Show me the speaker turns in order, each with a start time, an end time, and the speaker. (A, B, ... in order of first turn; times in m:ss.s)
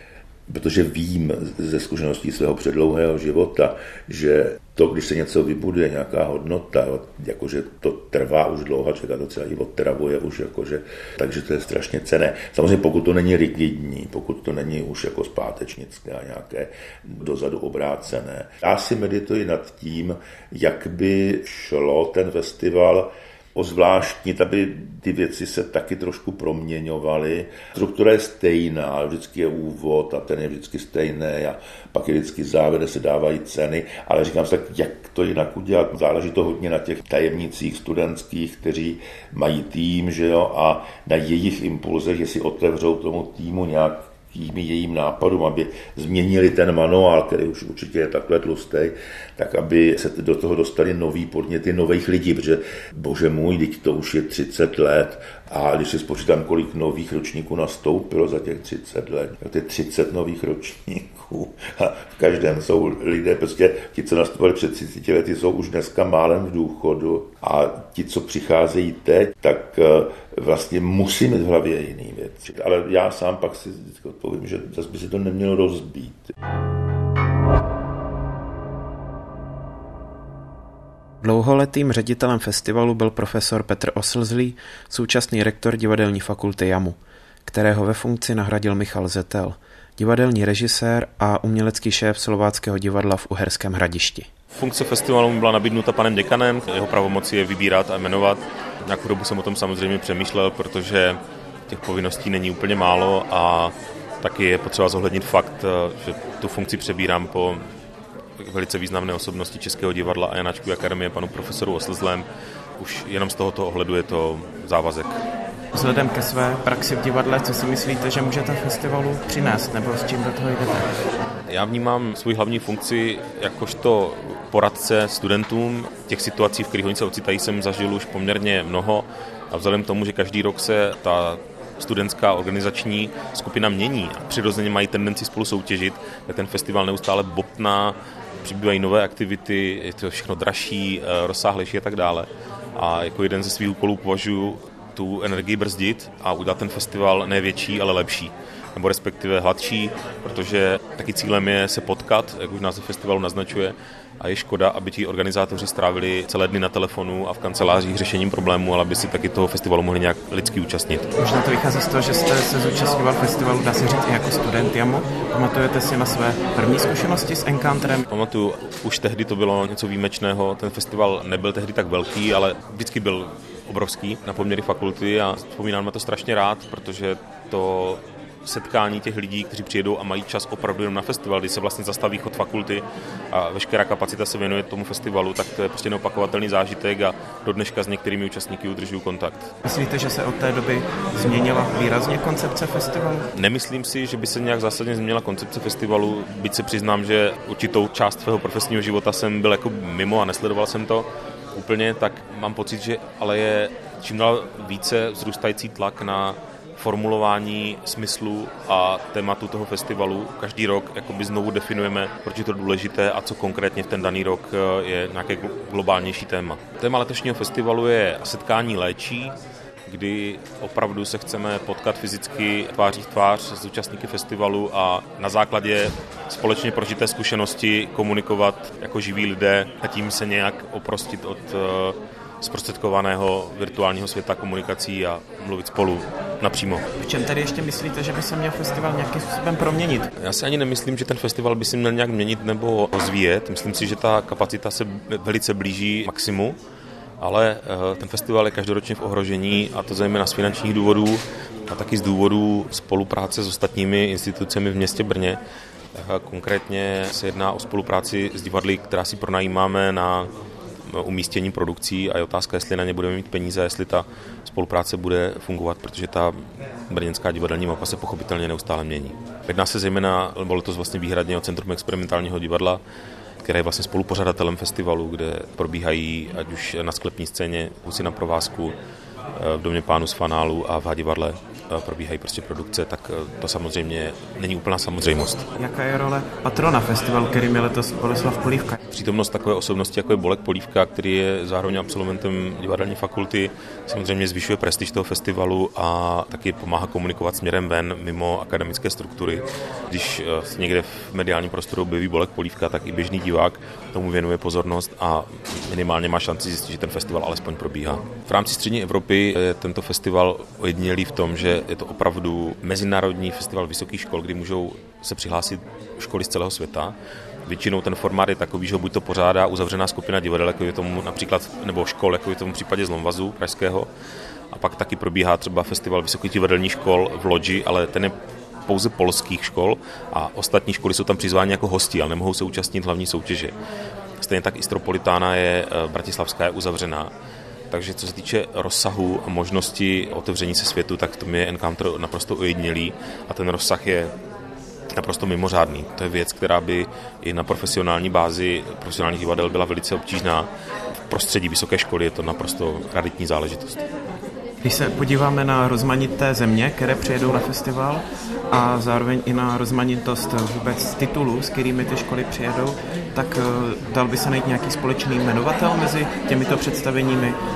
0:00.5-1:16.3 A
1:21.2-1:34.3 B
1:34.5-1:47.6 C
1:48.4-1:52.2 C
1:52.8-1:55.1 C
1:55.7-2:00.9 B
2:01.5-2:41.0 C
2:41.2-2:48.0 B
2:48.1-3:09.5 C
3:09.6-3:13.3 B
3:13.4-3:39.3 C
3:39.9-3:56.8 C
3:57.0-4:00.1 B
4:00.2-4:06.6 C
4:07.2-4:15.4 C
4:15.9-4:20.3 C
4:20.9-4:32.8 C
4:33.4-4:38.8 C
4:39.3-4:45.4 C
4:45.6-4:48.8 B
4:48.9-5:16.9 C
5:17.4-5:23.9 C
5:24.5-5:28.1 C
5:28.7-5:33.5 C
5:34.2-5:37.1 C
5:37.7-5:44.1 C
5:45.0-5:50.5 C
5:51.1-5:53.8 C
5:54.6-6:07.4 B